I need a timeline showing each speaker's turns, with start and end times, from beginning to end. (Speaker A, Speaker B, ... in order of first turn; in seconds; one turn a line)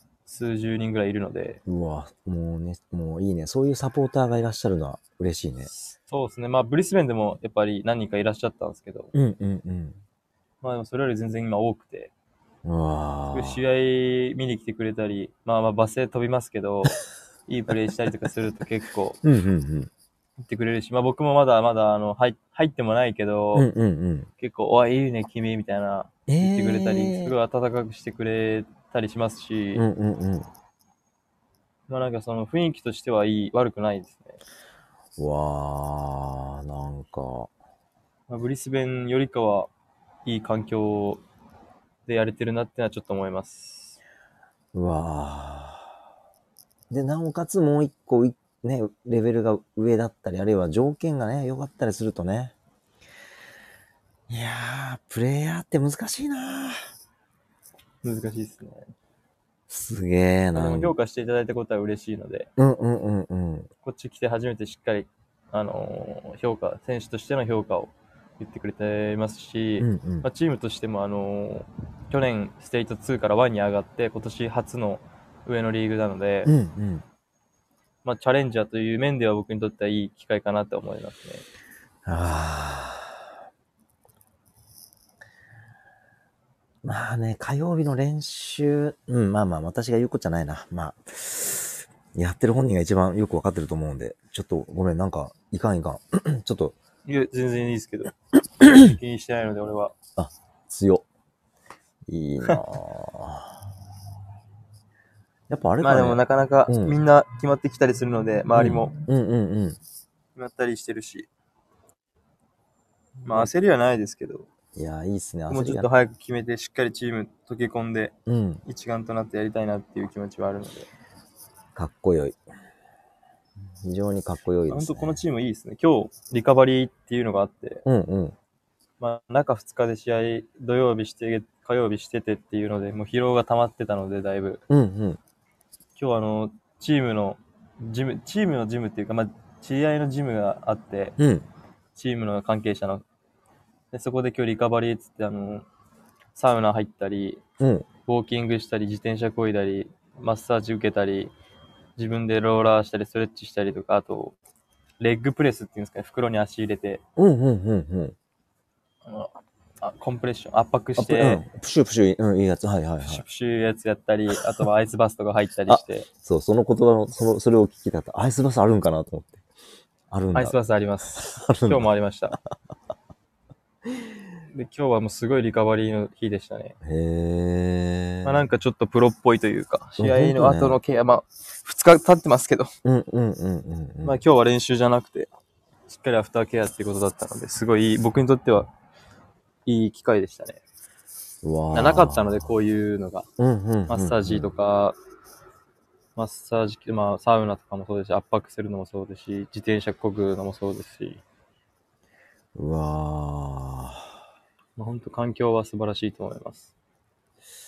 Speaker A: 0.3-1.6
Speaker B: 1.7-5.7
Speaker A: 5.7-9.1
Speaker B: 9.1-10.0
Speaker A: 10.6-12.1
Speaker B: 12.7-13.6
Speaker A: 13.3-16.9
Speaker A: 17.5-19.2
Speaker B: 19.2-19.9
Speaker A: 20.4-23.7
Speaker B: 23.6-24.3
Speaker A: 24.4-29.9
Speaker B: 26.3-27.4
Speaker B: 29.8-30.5
Speaker A: 31.9-34.4
Speaker B: 35.2-37.5
Speaker A: 38.3-39.7
Speaker A: 40.2-41.2
Speaker A: 42.1-44.0
Speaker B: 44.7-45.9
Speaker B: 46.9-52.5
Speaker B: 54.3-56.8
Speaker A: 58.0-58.9
Speaker B: 59.7-61.0
Speaker A: 60.5-62.5
Speaker B: 62.6-63.7
Speaker A: 63.8-76.5
Speaker B: 69.8-70.3
Speaker B: 76.5-77.0
Speaker A: 78.0-81.5
Speaker B: 82.1-83.3
Speaker B: 86.8-96.8
Speaker A: 97.1-99.9
Speaker B: 100.2-101.0
Speaker B: 102.1-103.6
Speaker B: 105.5-107.0
Speaker A: 105.8-108.9
Speaker B: 108.5-109.8
Speaker A: 110.4-111.3
Speaker B: 113.2-113.5
Speaker A: 113.3-114.5
Speaker B: 114.8-115.9
Speaker A: 115.5-118.1
Speaker B: 118.3-118.6
Speaker A: 118.7-120.9
Speaker B: 121.8-122.4
Speaker B: 123.8-125.2
Speaker A: 124.7-127.8
Speaker B: 127.9-128.3
Speaker A: 129.0-134.6
Speaker B: 134.7-135.2
Speaker A: 136.0-141.2
Speaker B: 141.2-141.5
Speaker A: 142.0-143.0
Speaker A: 143.9-145.7
Speaker A: 146.3-147.4
Speaker B: 147.6-147.9
Speaker A: 148.1-151.3
Speaker A: 152.0-154.4
Speaker A: 155.0-157.0
Speaker B: 157.2-158.2
Speaker A: 159.1-161.4
Speaker B: 161.0-163.2
Speaker A: 163.0-166.1
Speaker B: 165.7-169.4
Speaker B: 170.1-170.6
Speaker A: 170.3-172.4
Speaker B: 171.2-172.3
Speaker A: 174.5-176.8
Speaker B: 176.8-178.5
Speaker A: 178.2-182.7
Speaker B: 180.0-180.8
Speaker B: 182.8-184.2
Speaker A: 184.0-185.3
Speaker A: 185.9-188.7
Speaker A: 189.7-190.6
Speaker B: 191.4-192.5
Speaker A: 191.7-193.3
Speaker B: 193.4-194.5
Speaker A: 193.9-195.0
Speaker A: 196.2-201.2
Speaker B: 202.6-204.1
Speaker A: 204.8-206.7